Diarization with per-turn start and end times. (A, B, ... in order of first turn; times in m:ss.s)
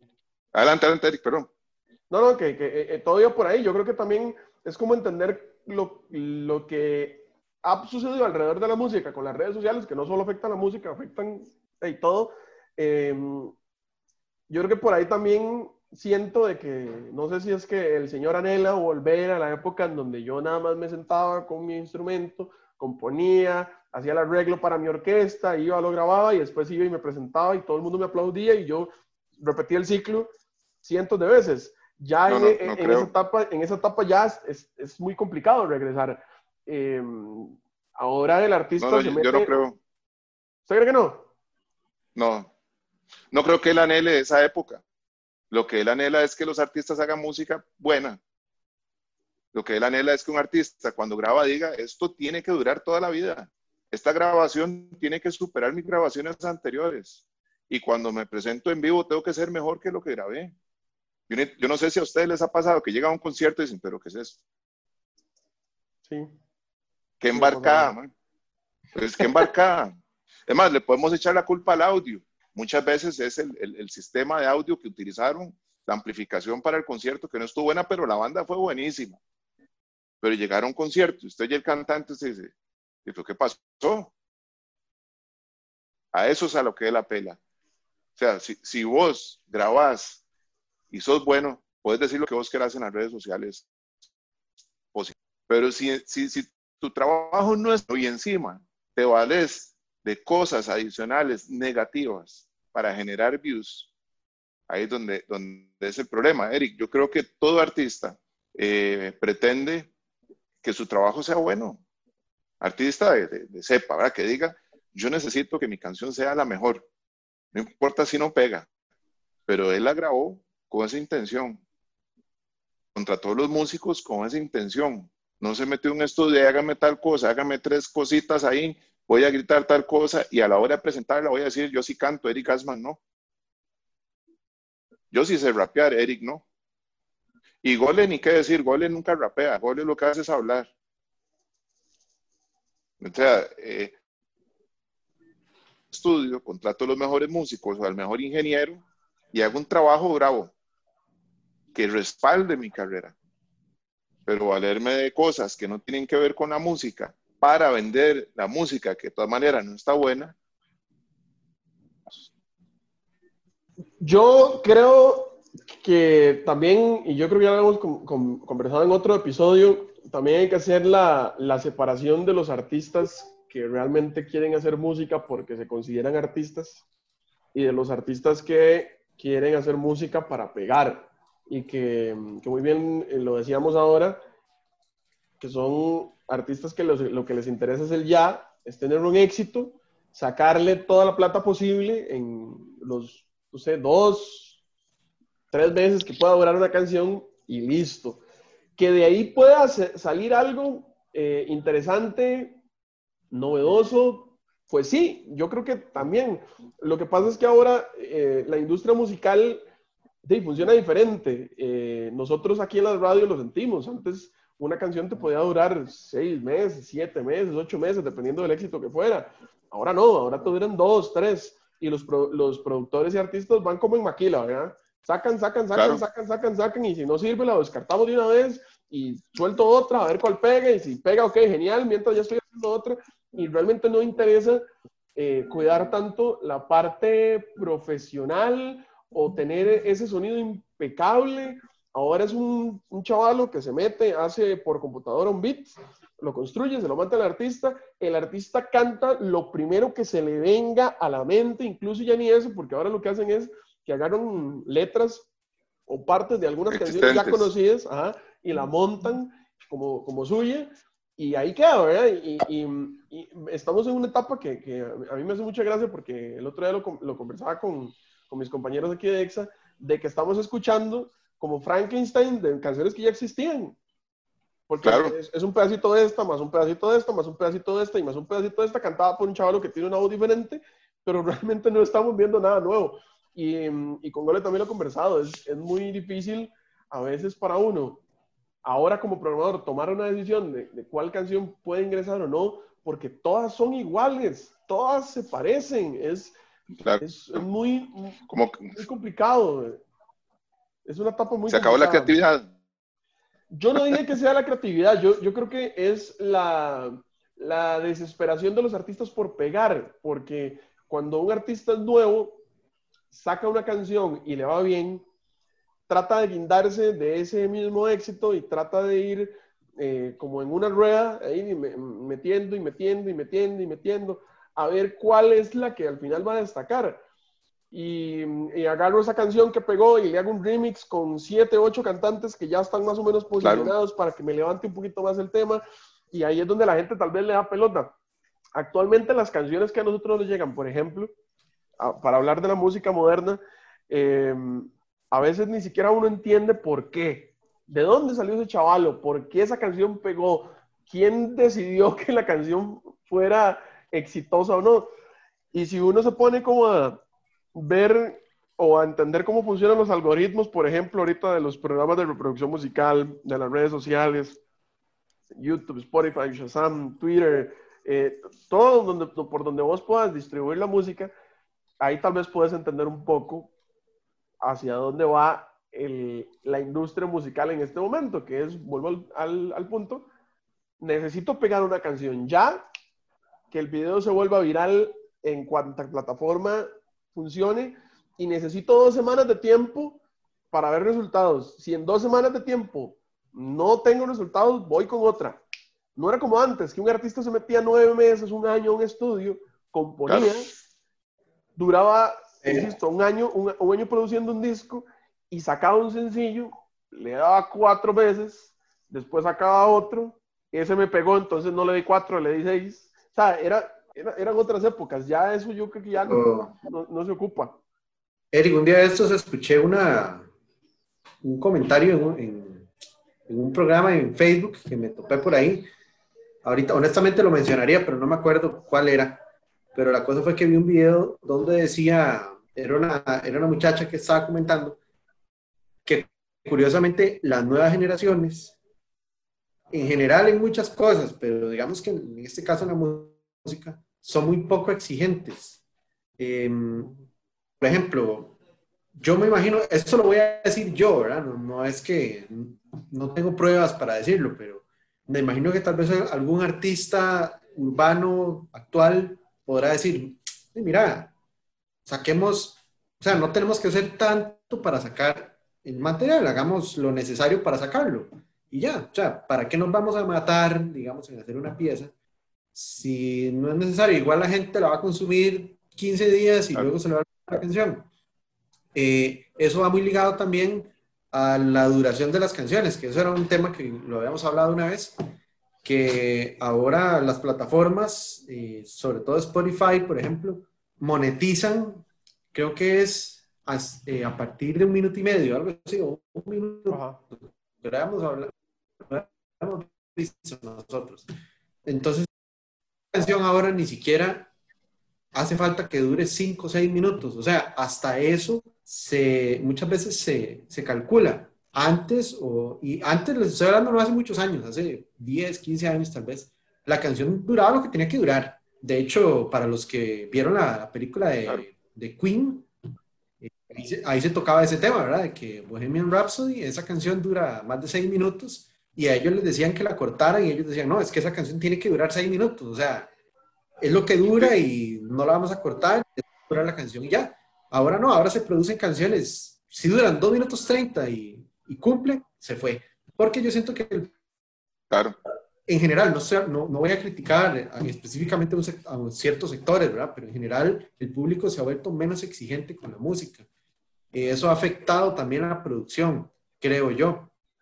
0:00.5-0:01.5 A
0:02.1-0:13.5 B
0:14.5-0:30.3 B
0:30.8-0:39.5 B
0:32.3-0:33.1 A
0:38.8-0:39.8 A
0:40.7-0:41.3 B
0:42.2-0:42.5 A
0:43.3-0:44.8 A
0:45.5-0:48.2 A
0:49.5-1:00.5 A
1:01.3-1:04.4 A
1:06.1-1:06.3 B
1:07.2-1:08.1 A
1:07.3-1:07.9 B
1:08.9-1:09.9 A
1:10.5-1:19.2 A
1:20.2-1:22.5 A
1:23.0-1:24.1 A
1:26.1-1:27.4 A
1:28.2-1:30.2 A
1:30.9-1:33.6 A
1:34.9-1:43.9 A
1:44.7-1:49.9 A
1:50.6-1:51.8 A
1:52.6-1:56.9 A
1:57.5-1:58.6 A
1:59.5-2:01.6 A
2:02.9-2:13.0 A
2:15.1-2:16.4 A
2:17.6-2:20.7 A
2:23.0-2:23.9 A
2:25.9-2:30.5 A
2:31.7-2:33.1 A
2:34.2-2:40.3 A
2:44.0-2:56.8 B
2:57.5-3:04.2 B
3:05.4-3:14.6 B
3:15.5-3:18.2 B
3:18.8-3:22.6 B
3:23.3-3:29.6 B
3:30.2-3:54.6 B
3:45.7-3:46.0 A
3:55.2-4:15.3 B
4:15.9-4:33.8 B
4:16.7-4:17.5 A
4:34.7-4:48.0 B
4:34.8-4:35.1 A
4:48.6-4:56.4 B
4:56.8-4:57.4 A
4:57.0-4:58.2 B
4:58.3-4:58.8 A
4:58.7-4:59.8 B
5:00.8-5:02.1 B
5:01.5-5:02.5 A
5:03.5-5:12.4 B
5:13.1-5:15.0 B
5:15.9-5:27.0 B
5:27.7-5:37.9 B
5:33.4-5:33.7 A
5:38.5-5:41.1 B
5:41.8-5:54.9 B
5:55.5-5:57.0 B
5:57.5-6:04.4 B
6:05.3-6:11.1 B
6:11.8-6:13.5 B
6:14.4-6:20.1 B
6:20.8-6:22.6 B
6:23.5-6:30.0 B
6:30.5-6:35.4 B
6:36.0-6:40.5 B
6:40.1-6:40.5 A
6:41.6-6:57.6 B
6:56.0-6:56.5 C
6:58.3-7:00.3 C
7:01.2-7:02.7 C
7:03.3-7:05.7 C
7:06.4-7:09.2 C
7:09.7-7:14.8 C
7:15.8-7:18.6 C
7:19.7-7:25.6 C
7:26.2-7:27.0 C
7:27.6-7:28.4 C
7:29.0-7:41.1 C
7:41.8-7:51.9 C
7:52.5-7:57.9 C
7:58.7-8:05.0 C
8:05.6-8:18.3 C
8:16.7-8:17.0 B
8:18.8-8:21.1 C
8:21.6-8:22.1 C
8:22.9-8:24.3 C
8:25.1-8:42.5 C
8:43.2-8:52.9 C
8:53.6-9:03.9 C
8:54.1-8:54.3 A
9:04.7-9:05.0 A
9:05.5-9:13.2 C
9:13.9-9:17.1 C